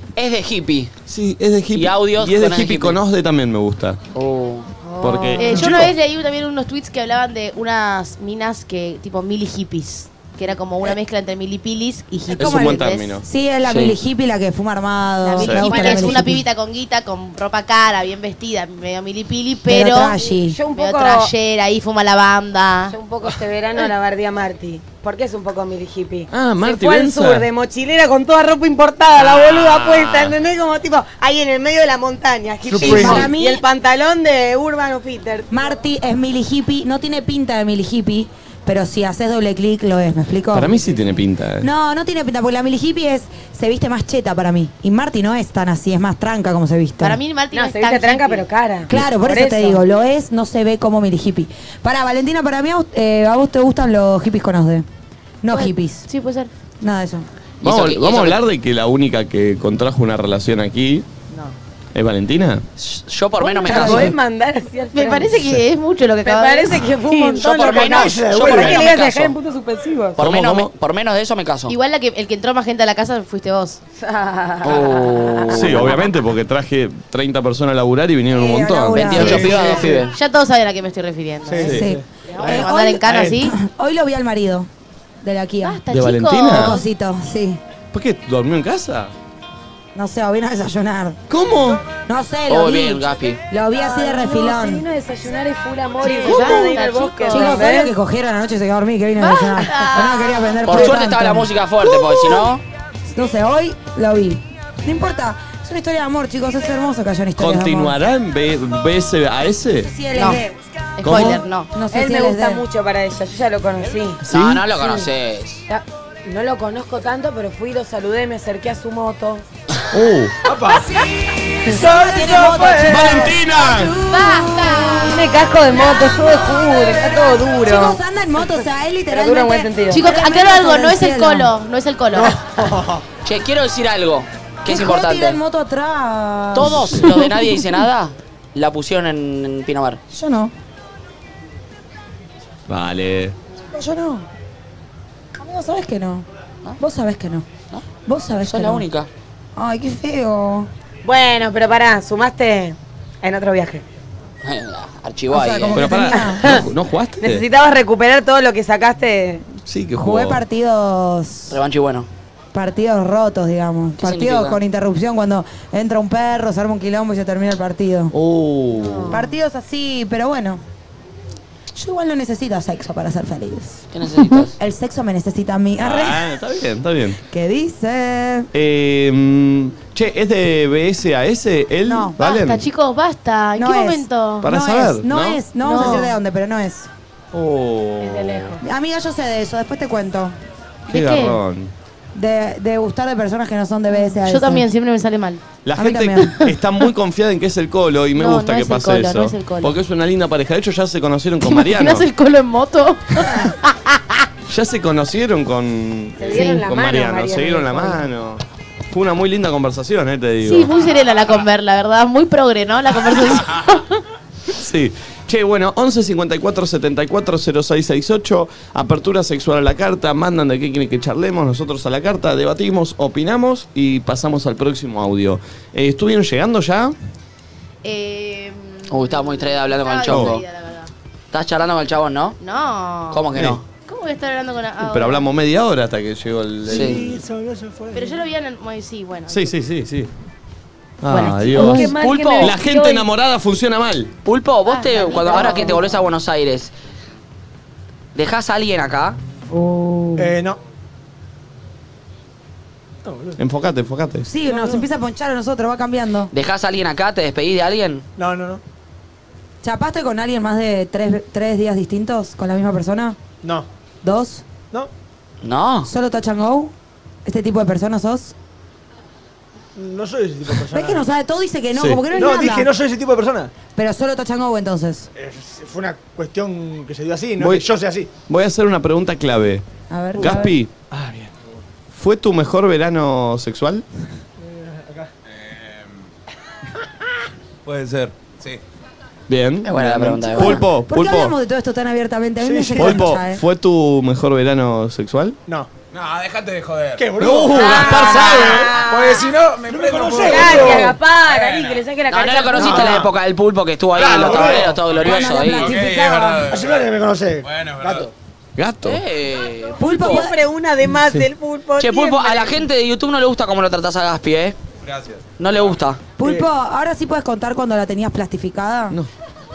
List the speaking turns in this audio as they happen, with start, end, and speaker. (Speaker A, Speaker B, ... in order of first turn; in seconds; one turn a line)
Speaker A: 0.1-0.9
Speaker B: 1.1-4.0
Speaker A: 1.7-3.0
Speaker A: 4.1-4.7
Speaker C: 4.8-5.5
Speaker B: 5.0-5.9
Speaker D: 5.4-13.2
Speaker E: 5.6-5.9
Speaker B: 12.3-13.2
Speaker F: 12.4-16.4
Speaker A: 13.7-13.9
Speaker D: 15.2-20.2
Speaker B: 15.4-16.1
Speaker C: 15.7-16.2
Speaker F: 19.7-20.6
Speaker C: 20.2-21.3
Speaker D: 20.7-22.9
Speaker C: 22.9-35.6
Speaker B: 26.3-27.5
Speaker B: 29.2-30.4
Speaker E: 32.7-33.3
Speaker F: 32.8-33.6
Speaker F: 35.5-41.0
Speaker B: 40.5-41.7
Speaker F: 41.6-47.2
Speaker D: 47.0-48.5
Speaker C: 47.5-49.8
Speaker F: 48.9-54.9
Speaker F: 55.4-56.0
Speaker D: 55.5-56.5
Speaker F: 56.8-57.2
Speaker B: 57.6-61.0
Speaker A: 57.6-58.4
Speaker B: 61.9-62.6
Speaker A: 62.8-64.1
Speaker C: 63.4-65.5
Speaker F: 63.6-64.1
Speaker D: 64.9-67.5
Speaker C: 66.2-70.2
Speaker A: 67.4-69.4
Speaker E: 67.6-68.8
Speaker A: 70.2-71.7
Speaker B: 70.2-70.7
Speaker D: 71.7-73.8
Speaker C: 74.0-76.0
Speaker A: 74.6-76.0
Speaker B: 75.5-80.0
Speaker F: 78.3-79.8
Speaker A: 78.9-80.1
Speaker E: 79.3-80.0
Speaker D: 80.0-83.5
Speaker E: 81.5-83.4
Speaker B: 81.6-81.9
Speaker F: 81.6-84.7
Speaker F: 85.2-85.8
Speaker D: 85.6-86.8
Speaker B: 85.9-86.8
Speaker F: 86.5-87.6
Speaker B: 87.9-89.1
Speaker F: 89.9-91.2
Speaker B: 91.3-91.8
Speaker F: 92.1-94.8
Speaker A: 92.5-93.4
Speaker C: 93.7-97.9
Speaker D: 96.0-97.7
Speaker B: 96.2-96.7
Speaker F: 97.3-101.5
Speaker D: 99.2-100.4
Speaker A: 100.6-102.6
Speaker F: 103.0-108.0
Speaker B: 107.4-109.9
Speaker F: 109.8-110.5
Speaker D: 110.2-110.4
Speaker D: 111.0-111.7
Speaker B: 111.0-111.4
Speaker F: 111.1-112.6
Speaker C: 111.9-114.2
Speaker B: 114.2-114.6
Speaker A: 114.3-115.6
Speaker C: 114.8-115.1
Speaker C: 115.7-119.4
Speaker B: 119.9-120.3
Speaker E: 120.4-121.0
Speaker E: 121.6-123.3
Speaker F: 121.6-131.5
Speaker B: 122.8-124.0
Speaker D: 124.0-125.2
Speaker C: 125.1-128.0
Speaker C: 129.1-130.0
Speaker D: 129.9-132.4
Speaker E: 132.1-133.0
Speaker A: 133.2-135.4
Speaker F: 134.7-137.5
Speaker A: 136.5-140.0
Speaker F: 140.1-140.5
Speaker B: 142.7-143.3
Speaker F: 143.7-144.2
Speaker F: 145.4-146.2
Speaker F: 146.8-147.4
Speaker F: 148.1-148.8
Speaker A: 148.4-149.1
Speaker F: 149.6-150.7
Speaker C: 151.0-153.8
Speaker A: 154.4-155.9
Speaker F: 155.3-156.6
Speaker B: 155.7-157.4
Speaker C: 156.1-156.7
Speaker C: 157.2-159.4
Speaker B: 159.7-160.4
Speaker F: 159.9-161.6
Speaker A: 161.5-162.1
Speaker F: 162.5-168.1
Speaker A: 164.0-164.6
Speaker B: 168.1-169.2
Speaker C: 168.8-169.2
Speaker F: 169.1-170.6
Speaker F: 171.7-176.3
Speaker A: 173.9-174.5
Speaker B: 175.8-177.2
Speaker F: 177.2-178.5
Speaker B: 178.5-182.6
Speaker F: 181.8-182.2
Speaker D: 182.2-184.5
Speaker F: 183.6-186.9
Speaker B: 184.4-185.4
Speaker D: 185.6-186.1
Speaker B: 187.3-188.6
Speaker D: 188.0-188.6
Speaker F: 188.6-190.4
Speaker D: 190.9-191.4
Speaker B: 190.9-191.7
Speaker F: 192.1-194.7
Speaker D: 194.0-195.4
Speaker B: 195.6-202.1
Speaker F: 195.8-196.5
Speaker D: 198.1-199.7
Speaker D: 201.4-204.2
Speaker B: 204.5-210.7
Speaker C: 206.2-208.0
Speaker D: 206.3-206.6
Speaker D: 210.4-213.9
Speaker B: 214.5-226.9
Speaker D: 227.8-230.9
Speaker A: 228.9-230.4
Speaker B: 230.1-230.4
Speaker A: 231.3-232.4
Speaker D: 232.4-235.2
Speaker A: 233.1-233.6
Speaker B: 233.3-233.6
Speaker B: 234.8-237.2
Speaker E: 236.7-238.2
Speaker A: 236.7-237.0
Speaker D: 237.9-239.5
Speaker B: 239.3-240.1
Speaker B: 241.0-244.1
Speaker C: 241.1-243.1
Speaker A: 241.5-242.6
Speaker A: 244.2-246.7
Speaker D: 244.7-245.8
Speaker C: 245.3-245.8
Speaker A: 248.1-249.2
Speaker E: 250.2-250.6
Speaker E: 253.0-253.4
Speaker B: 253.4-254.2
Speaker F: 254.2-256.3
Speaker E: 254.4-254.8
Speaker A: 256.3-258.0
Speaker E: 258.2-258.6
Speaker F: 259.6-263.2
Speaker F: 264.0-264.4
Speaker A: 265.4-265.9
Speaker F: 265.8-266.7
Speaker F: 267.2-268.3
Speaker E: 269.8-271.1
Speaker F: 270.7-272.7
Speaker B: 271.7-272.0
Speaker E: 272.1-273.5
Speaker F: 273.7-275.1
Speaker E: 275.1-278.1
Speaker B: 277.4-277.6
Speaker B: 278.3-279.6
Speaker F: 279.9-280.5
Speaker E: 280.2-281.4
Speaker B: 280.2-280.7
Speaker B: 281.9-283.8
Speaker E: 284.4-285.1
Speaker G: 285.3-286.0
Speaker G: 287.6-288.6
Speaker B: 289.3-291.3
Speaker A: 289.6-290.6
Speaker F: 290.4-293.4
Speaker E: 292.4-293.1
Speaker B: 292.8-295.4
Speaker G: 295.9-301.8
Speaker E: 296.9-301.0
Speaker B: 297.2-298.7
Speaker C: 297.6-299.2
Speaker C: 300.2-303.1
Speaker A: 302.1-305.8
Speaker E: 302.6-303.1
Speaker G: 303.9-306.9
Speaker E: 304.0-304.7
Speaker F: 304.9-306.5
Speaker E: 306.5-308.1
Speaker G: 307.4-308.1
Speaker B: 308.6-309.0
Speaker A: 308.8-310.2
Speaker F: 309.8-310.3
Speaker C: 309.9-312.6
Speaker A: 311.8-314.6
Speaker G: 314.8-315.8
Speaker A: 315.4-316.0
Speaker F: 316.2-319.0
Speaker E: 316.2-316.5